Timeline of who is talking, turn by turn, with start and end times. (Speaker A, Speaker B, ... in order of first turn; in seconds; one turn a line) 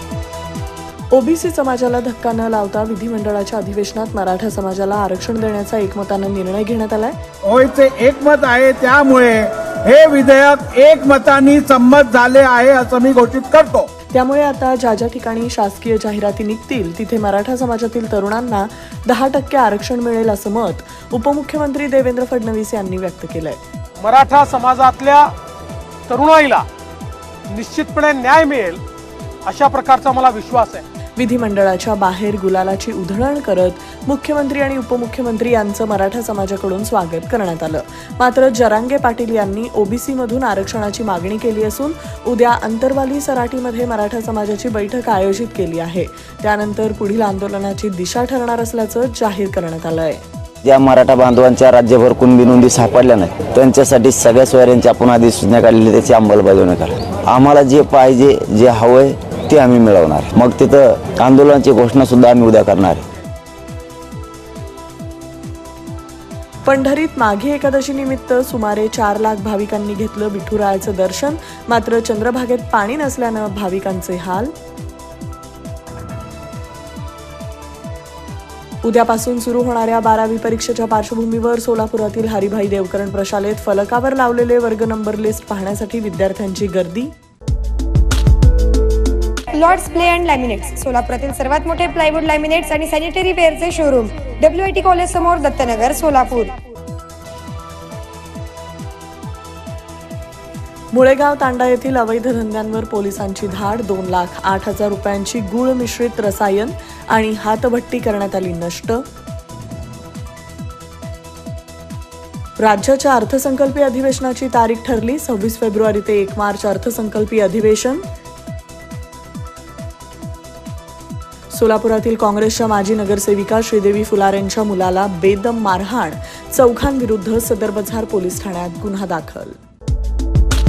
Speaker A: 1.1-7.2
Speaker B: 7.5-13.9
Speaker A: 14.1-23.6
Speaker C: 24.0-25.3
Speaker C: 26.1-26.7
Speaker C: 27.5-28.8
Speaker C: 29.5-30.8
Speaker A: 31.2-50.2
Speaker D: 50.6-63.0
Speaker A: 66.7-74.5
Speaker A: 78.8-87.1
Speaker E: 89.5-96.5
Speaker A: 100.9-109.0
Speaker A: 112.6-118.0
Speaker A: 121.5-129.6